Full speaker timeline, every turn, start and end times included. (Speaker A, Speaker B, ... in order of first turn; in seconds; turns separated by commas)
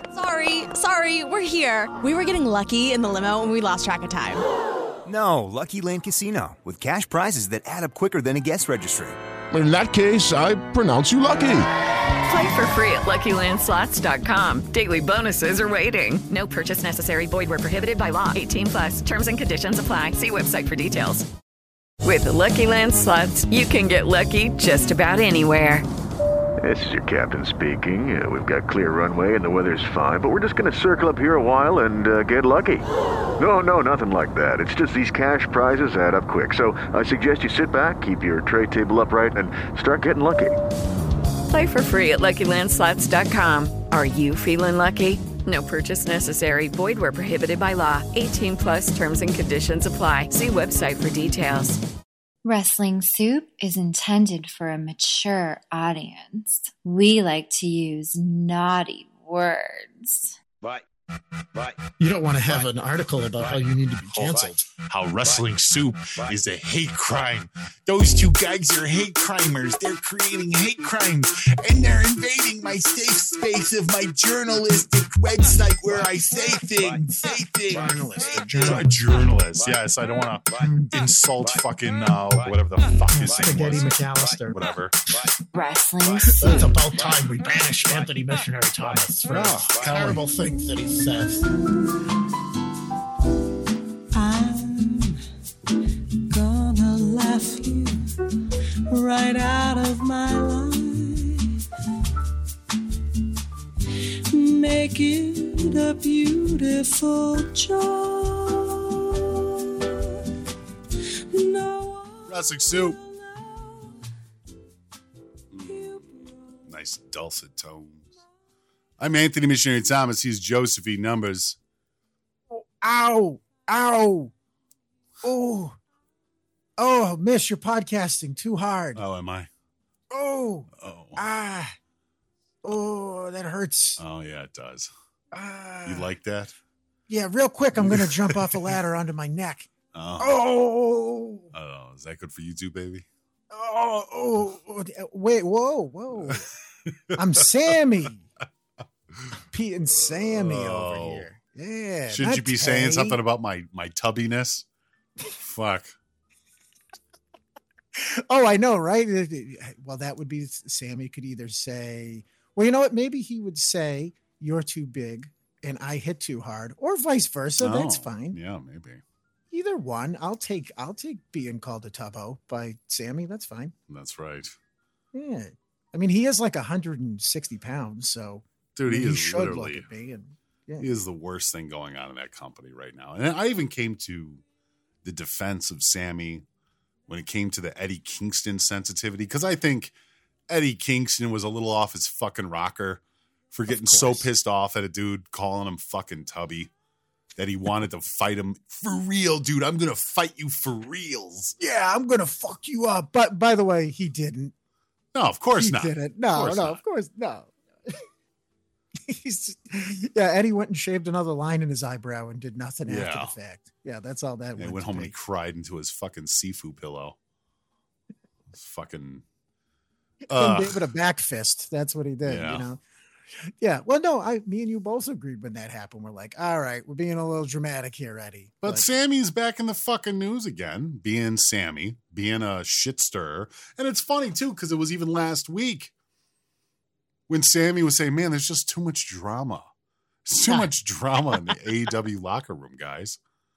Speaker A: 0.1-4.4, Speaker B: 5.0-9.2, Speaker C: 9.5-11.7, Speaker D: 12.3-21.2, Speaker D: 22.0-25.9, Speaker E: 26.6-32.9, Speaker E: 33.4-40.5, Speaker D: 41.5-51.8, Speaker F: 52.4-60.3, Speaker G: 62.0-64.7, Speaker H: 64.9-85.0, Speaker G: 77.1-78.9, Speaker G: 80.6-80.9, Speaker G: 83.1-84.6, Speaker F: 85.5-86.7, Speaker G: 86.4-91.4, Speaker H: 89.2-90.2, Speaker I: 94.1-95.2, Speaker I: 96.3-98.0, Speaker I: 98.9-101.5, Speaker I: 104.3-109.9, Speaker I: 111.3-113.9, Speaker H: 112.2-113.0, Speaker H: 115.5-116.1, Speaker I: 115.6-116.5, Speaker H: 116.6-118.1, Speaker H: 119.0-121.6, Speaker G: 122.5-124.3, Speaker G: 125.2-125.8, Speaker G: 126.8-129.0, Speaker H: 128.9-129.5, Speaker G: 130.1-131.7, Speaker H: 130.8-131.2, Speaker G: 132.6-134.0, Speaker H: 134.0-134.9, Speaker G: 135.3-136.1, Speaker H: 135.8-136.5, Speaker G: 137.1-139.7, Speaker H: 137.7-138.7, Speaker H: 139.9-140.4, Speaker G: 140.2-141.5, Speaker H: 141.5-143.1, Speaker G: 143.5-146.4, Speaker H: 146.1-146.4, Speaker G: 147.1-148.2, Speaker G: 149.5-153.2, Speaker H: 150.0-151.3, Speaker H: 152.1-154.7, Speaker H: 155.4-156.0, Speaker G: 157.9-168.4, Speaker H: 167.6-169.0, Speaker G: 169.5-173.7, Speaker H: 173.9-174.5, Speaker G: 175.1-180.9, Speaker H: 178.7-179.9, Speaker H: 180.8-184.4, Speaker H: 185.0-186.4, Speaker H: 187.1-189.9, Speaker H: 190.5-196.7, Speaker G: 193.7-194.2, Speaker H: 197.3-201.6, Speaker G: 201.6-204.5, Speaker H: 205.1-206.8, Speaker G: 205.6-208.0, Speaker G: 209.1-215.1, Speaker H: 212.9-213.3, Speaker H: 214.6-217.2, Speaker H: 218.5-219.2, Speaker G: 220.3-222.8, Speaker H: 220.3-220.8, Speaker H: 222.2-222.7, Speaker G: 223.6-228.8, Speaker H: 228.6-235.9, Speaker H: 237.3-239.7, Speaker H: 240.2-243.2